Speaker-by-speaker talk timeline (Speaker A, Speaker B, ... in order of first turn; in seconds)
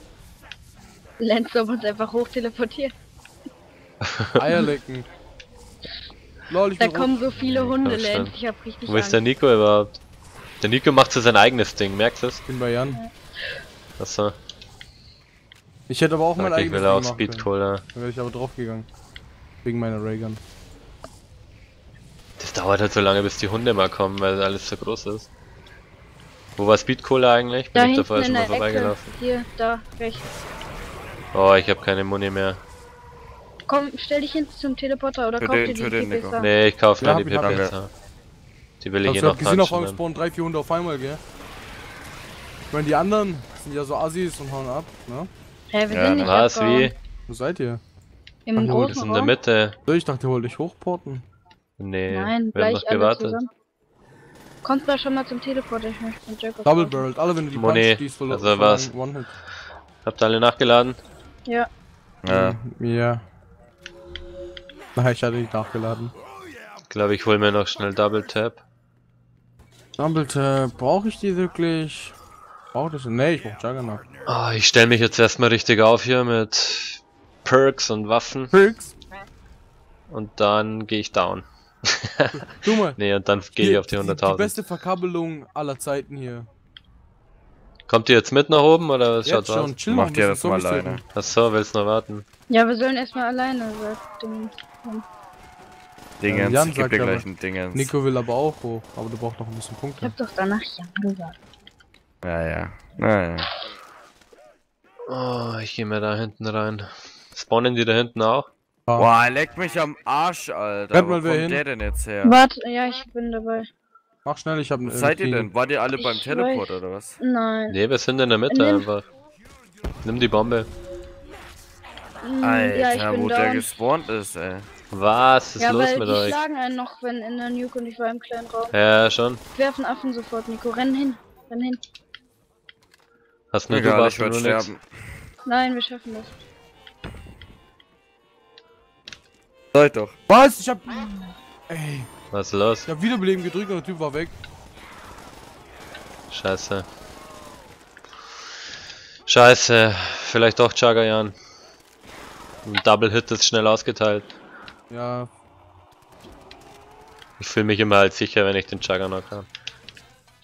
Speaker A: 1.2-2.9, 6.8-9.2, 27.7-30.3, 33.7-36.5, 45.7-46.9, 48.5-49.3, 52.1-53.5, 54.6-57.0, 92.5-95.0, 100.0-101.3, 112.2-113.7, 116.0-117.8, 118.5-118.9, 122.2-123.7, 125.6-128.7, 129.5-131.8, 135.4-136.3
Speaker B: 4.0-4.6, 7.4-8.3, 8.9-10.0, 10.6-12.4, 14.0-14.3, 16.4-17.8, 22.4-25.3, 26.6-29.1, 31.3-32.6, 36.4-37.9, 38.8-40.0, 46.2-46.9, 48.9-49.8, 51.8-53.4, 57.5-58.9, 60.0-61.0, 66.9-68.6, 74.2-78.5, 80.1-82.3, 83.0-84.6, 87.9-89.8, 91.1-92.2, 105.1-108.5, 117.7-119.0, 120.0-120.7, 124.9-126.4, 128.7-129.4, 133.5-134.7, 142.3-142.9, 146.3-146.9, 149.3-151.3, 152.6-154.3, 157.4-159.5
Speaker C: 4.4-5.1, 6.5-7.2, 12.4-13.0, 15.9-18.9, 19.6-20.4, 37.0-37.7, 39.0-41.2, 42.7-45.3, 47.3-47.8, 48.6-49.0, 49.9-51.2, 56.6-59.3, 62.2-63.2, 64.9-66.1, 70.0-72.1, 72.7-74.0, 78.5-78.9, 82.3-83.0, 83.6-86.5, 89.2-91.0, 96.2-100.1, 110.9-111.6, 114.2-115.5, 140.3-142.1, 142.8-144.3, 154.9-155.3
Speaker D: 35.4-36.4, 37.4-37.7, 45.9-46.4, 62.2-62.6, 89.9-91.0, 96.2-97.9, 102.2-103.5, 109.0-112.4, 114.8-117.2, 122.4-124.7, 133.7-135.2, 139.7-140.1